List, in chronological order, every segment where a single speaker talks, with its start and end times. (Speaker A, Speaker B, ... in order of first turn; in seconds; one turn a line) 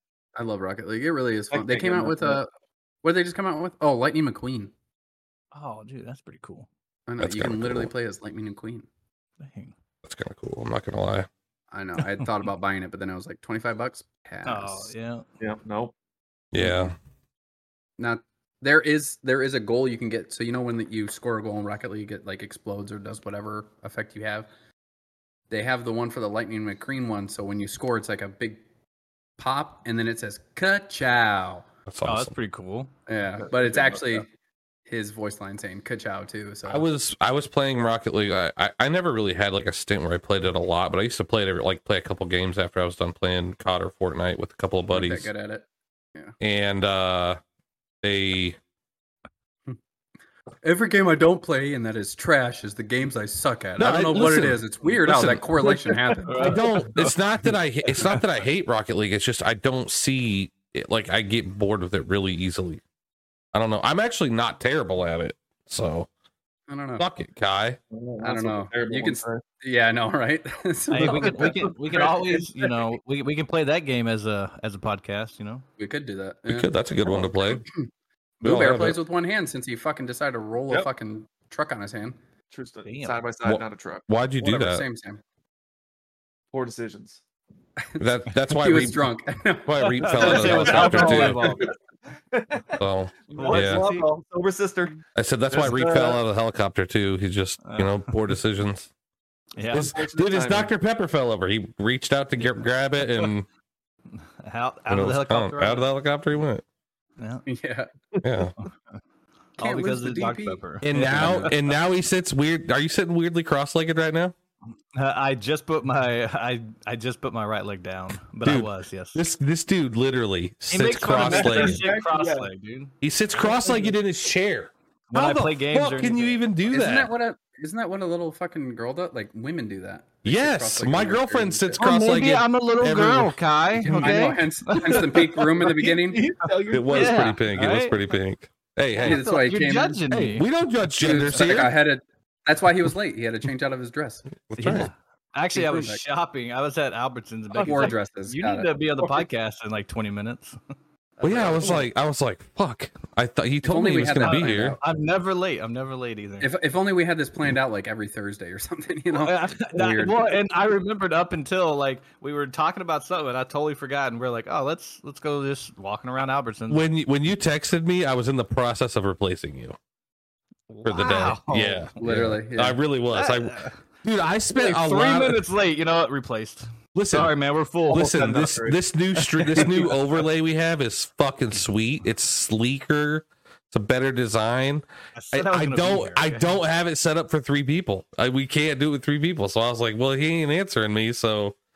Speaker A: 0.3-2.5
Speaker B: 1.5-2.4
Speaker A: 3.0-4.7
Speaker C: 5.5-6.7
Speaker A: 7.1-8.9
Speaker D: 7.2-7.9
Speaker C: 9.4-9.7
Speaker D: 10.0-11.3
Speaker A: 11.7-14.9
Speaker C: 12.0-12.3
Speaker C: 14.4-15.2
Speaker B: 15.4-15.9
Speaker D: 16.5-16.9
Speaker A: 16.6-16.9
Speaker A: 18.0-24.5
Speaker A: 25.5-28.6
Speaker A: 29.4-31.6
Speaker D: 31.9-32.3
Speaker C: 32.0-32.9
Speaker A: 33.1-34.3
Speaker B: 33.7-34.0
Speaker A: 34.9-36.9
Speaker D: 36.7-45.3
Speaker A: 44.9-46.3
Speaker D: 46.4-47.4
Speaker D: 48.0-48.6
Speaker A: 50.6-56.5
Speaker D: 53.8-55.4
Speaker C: 56.3-57.1
Speaker D: 56.4-62.8
Speaker D: 63.5-66.1
Speaker A: 66.7-67.0
Speaker D: 67.0-67.8
Speaker B: 67.9-69.4
Speaker A: 68.2-71.5
Speaker B: 70.9-72.7
Speaker C: 70.9-75.6
Speaker A: 75.8-76.7
Speaker D: 76.5-77.6
Speaker A: 78.4-82.2
Speaker D: 78.4-79.0
Speaker B: 82.5-84.0
Speaker C: 82.8-83.2
Speaker D: 83.4-84.8
Speaker A: 84.4-85.2
Speaker B: 86.5-87.2
Speaker A: 87.8-91.5
Speaker D: 88.0-89.0
Speaker D: 89.7-91.5
Speaker C: 90.0-91.7
Speaker B: 90.1-91.7
Speaker B: 92.3-96.2
Speaker D: 92.8-93.8
Speaker C: 93.3-94.1
Speaker D: 95.1-98.9
Speaker C: 97.6-98.0
Speaker C: 99.6-99.9
Speaker B: 99.7-100.7
Speaker D: 99.7-103.5
Speaker C: 104.4-105.9
Speaker D: 104.9-106.6
Speaker C: 107.2-107.4
Speaker A: 107.5-107.9
Speaker B: 108.1-108.4
Speaker D: 108.2-108.5
Speaker C: 109.6-111.6
Speaker A: 109.6-110.6
Speaker D: 110.8-114.3
Speaker A: 111.1-111.5
Speaker C: 114.9-119.2
Speaker D: 118.4-121.8
Speaker C: 120.7-122.9
Speaker B: 121.1-122.5
Speaker D: 123.0-127.1
Speaker B: 123.4-123.9
Speaker C: 125.1-126.4
Speaker A: 126.7-131.8
Speaker D: 130.2-133.4
Speaker C: 131.8-135.5
Speaker A: 133.8-136.2
Speaker B: 135.6-137.4
Speaker D: 136.7-139.2
Speaker C: 136.9-137.9
Speaker C: 139.0-140.5
Speaker A: 139.0-140.0
Speaker D: 140.1-141.7
Speaker A: 141.0-144.3
Speaker D: 144.5-144.9
Speaker C: 144.6-150.6
Speaker A: 145.5-146.0
Speaker A: 147.5-148.7
Speaker C: 151.2-151.8
Speaker D: 151.2-154.8
Speaker A: 153.6-154.8
Speaker C: 154.2-156.5
Speaker A: 156.4-160.3
Speaker C: 159.1-166.8
Speaker D: 166.7-169.8
Speaker C: 170.7-171.9
Speaker D: 170.8-175.4
Speaker A: 172.0-172.8
Speaker C: 173.1-173.8
Speaker C: 174.6-178.6
Speaker D: 176.9-177.3
Speaker D: 177.9-191.6
Speaker B: 177.9-178.8
Speaker C: 179.2-179.9
Speaker B: 179.6-179.8
Speaker C: 185.2-186.5